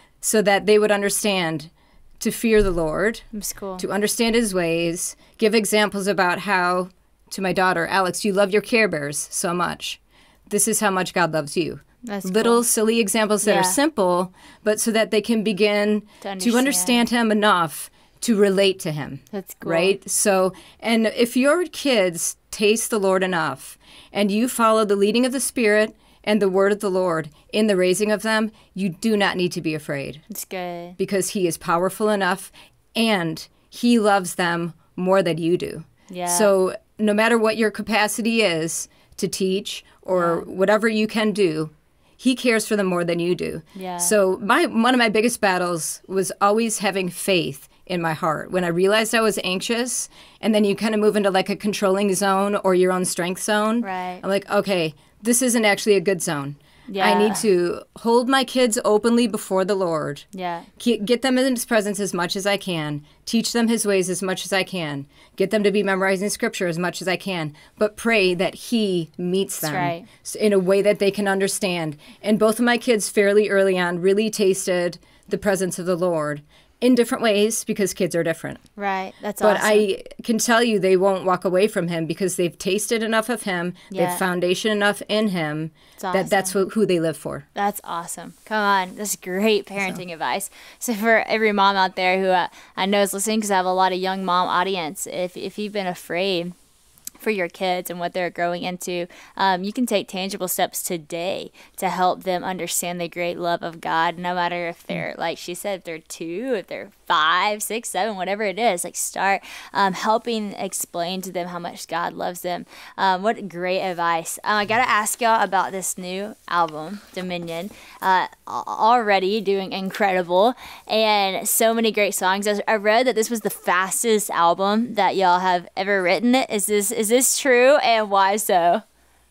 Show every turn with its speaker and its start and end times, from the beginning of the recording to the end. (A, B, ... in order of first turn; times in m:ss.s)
0:00.2-0:03.2 A
0:03.3-0:03.8 B
0:03.8-0:30.2 A
0:12.0-0:12.6 B
0:13.4-0:13.8 B
0:16.2-0:17.0 B
0:19.3-0:19.9 B
0:30.3-0:31.0 B
0:31.0-1:00.3 A
0:36.1-0:36.5 B
0:40.1-0:40.4 B
0:43.8-0:44.1 B
0:53.8-0:54.2 B
0:56.9-0:57.4 B
1:00.3-1:00.7 B
1:00.8-1:18.6 A
1:09.6-1:10.1 B
1:18.8-1:19.8 B
1:19.4-1:27.4 A
1:23.9-1:24.2 B
1:26.0-1:26.5 B
1:27.6-1:36.5 B
1:37.2-2:08.8 B